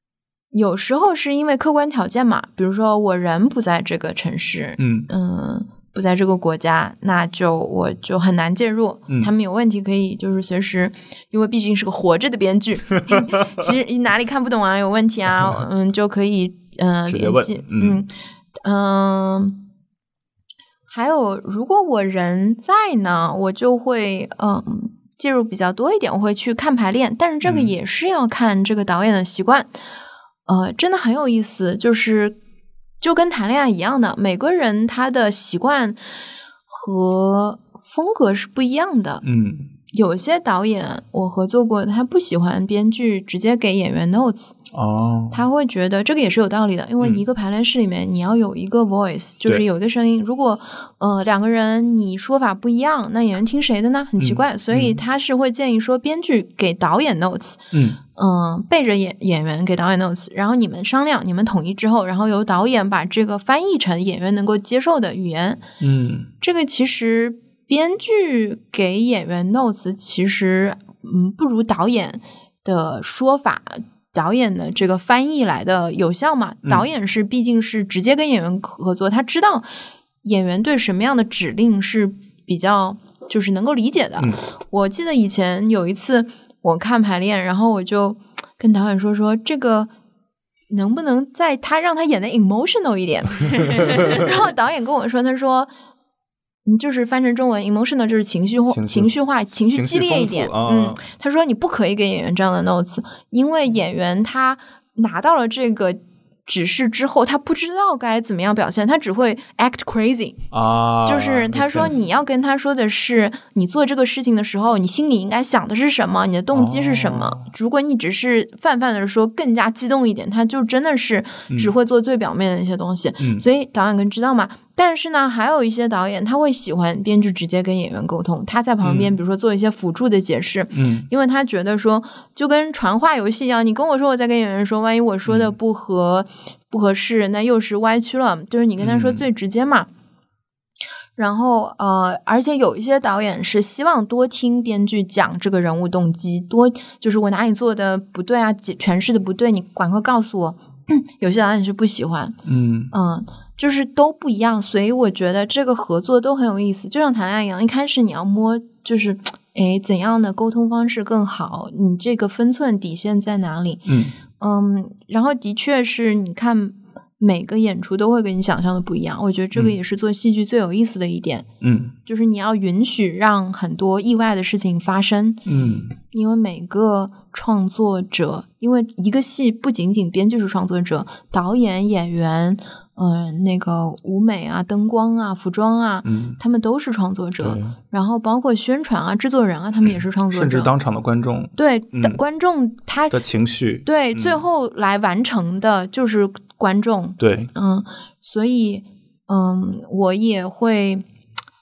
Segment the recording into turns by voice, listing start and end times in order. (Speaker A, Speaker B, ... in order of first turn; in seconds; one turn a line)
Speaker A: 0.5-18.1
Speaker B: 4.8-5.1
Speaker B: 17.1-18.0
Speaker A: 18.6-19.6
Speaker A: 20.9-29.8
Speaker B: 27.4-27.7
Speaker A: 30.5-32.4
Speaker A: 33.0-36.0
Speaker A: 36.7-39.2
Speaker B: 39.2-39.7
Speaker A: 39.9-44.6
Speaker B: 44.7-45.4
Speaker A: 45.3-65.7
Speaker B: 54.2-55.0
Speaker B: 57.7-58.0
Speaker B: 65.8-66.3
Speaker A: 66.4-79.7
Speaker A: 80.2-89.9
Speaker A: 90.7-95.7
Speaker A: 96.7-110.4
Speaker B: 98.7-101.0
Speaker B: 110.5-112.0
Speaker A: 111.0-139.9
Speaker B: 116.5-117.5
Speaker B: 123.2-123.5
Speaker B: 128.8-129.1
Speaker B: 130.7-131.1
Speaker B: 135.2-135.6
Speaker B: 138.8-139.3
Speaker A: 141.2-152.4
Speaker B: 152.4-152.9
Speaker A: 152.9-163.9
Speaker B: 163.9-164.2
Speaker A: 164.4-171.5
Speaker B: 171.6-171.9
Speaker A: 172.1-175.4
Speaker B: 175.5-175.9
Speaker A: 176.1-190.7
Speaker B: 186.0-186.4
Speaker B: 187.4-187.7
Speaker B: 190.3-192.2
Speaker A: 191.6-193.2
Speaker B: 193.1-194.4
Speaker A: 193.8-201.1
Speaker B: 197.2-197.5